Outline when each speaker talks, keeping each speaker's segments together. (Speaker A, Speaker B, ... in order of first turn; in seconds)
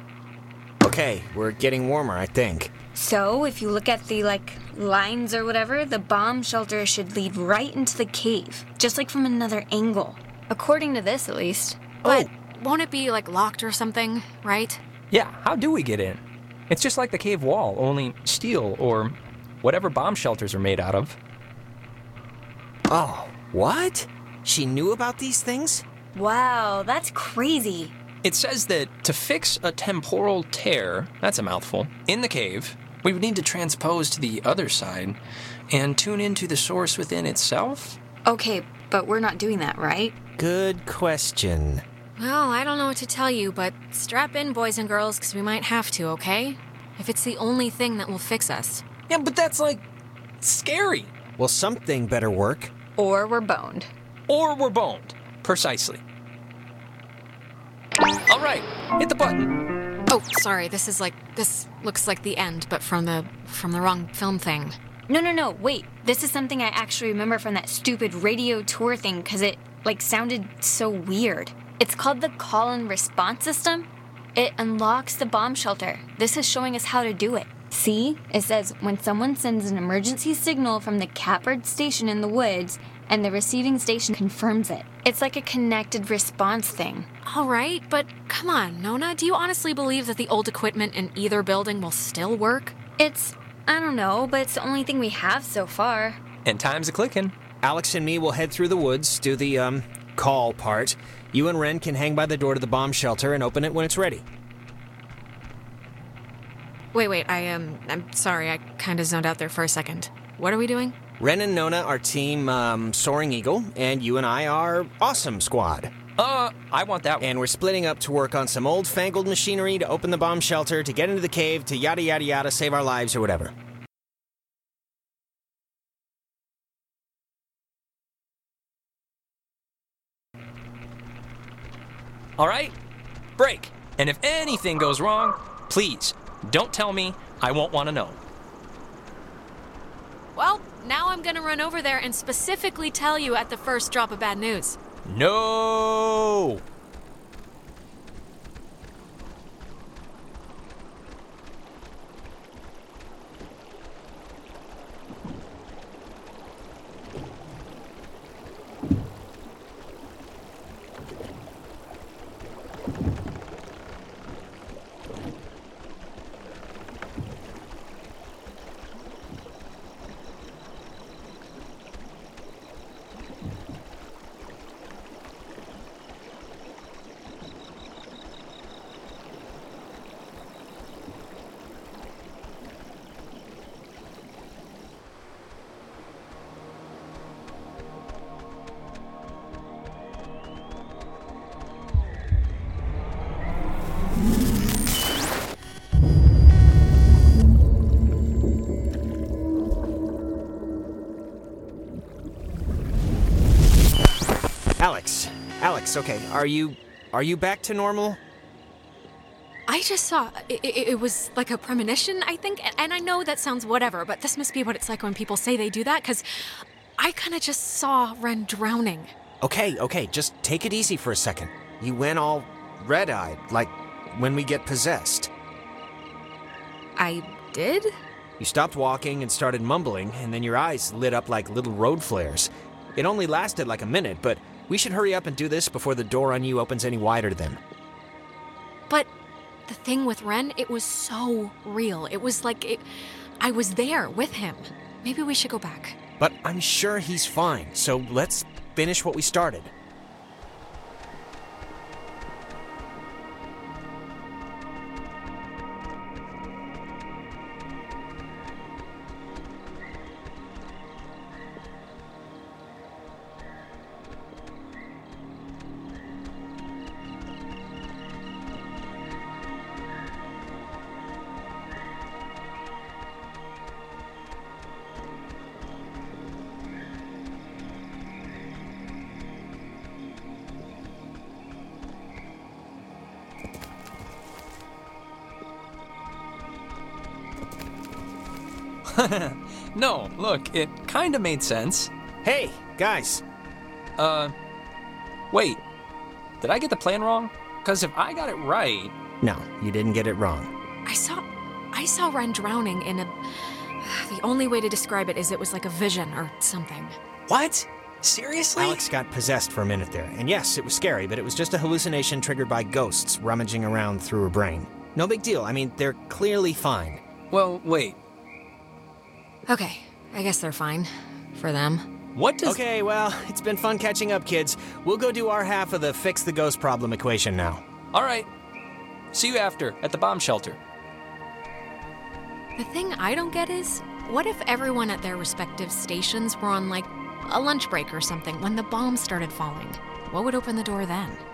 Speaker A: 0.8-2.7, 22.9-25.9, 40.4-41.8, 51.4-52.7, 97.6-104.2, 111.2-115.9, 117.2-123.5, 204.8-208.2, 219.4-225.3, 228.4-237.6, 246.2-249.7, 289.0-289.3, 292.2-293.2, 299.2-300.5, 308.6-317.0, 322.4-327.6
Speaker B: 3.0-11.8, 26.1-27.9, 38.2-40.2, 53.0-53.9, 65.1-87.1, 93.0-96.2
Speaker C: 12.0-14.8, 42.2-48.8, 60.1-64.8, 87.2-92.8, 106.9-111.0, 140.3-144.8, 209.7-219.1, 227.0-227.9, 239.7-242.8, 243.4-246.0, 300.9-303.1, 303.8-307.0, 319.5-321.9, 332.6-341.2
Speaker D: 15.1-21.2, 28.2-35.2, 35.7-38.0, 49.1-49.8, 50.4-51.1, 54.3-56.0, 58.3-59.5, 96.5-97.3, 116.2-117.3, 132.4-132.7, 133.4-138.2, 145.1-146.6, 289.8-291.9, 294.0-294.3, 295.3-295.6, 296.4-298.9, 307.3-308.8, 317.3-318.0, 322.1-322.6, 327.9-328.3, 329.1-330.6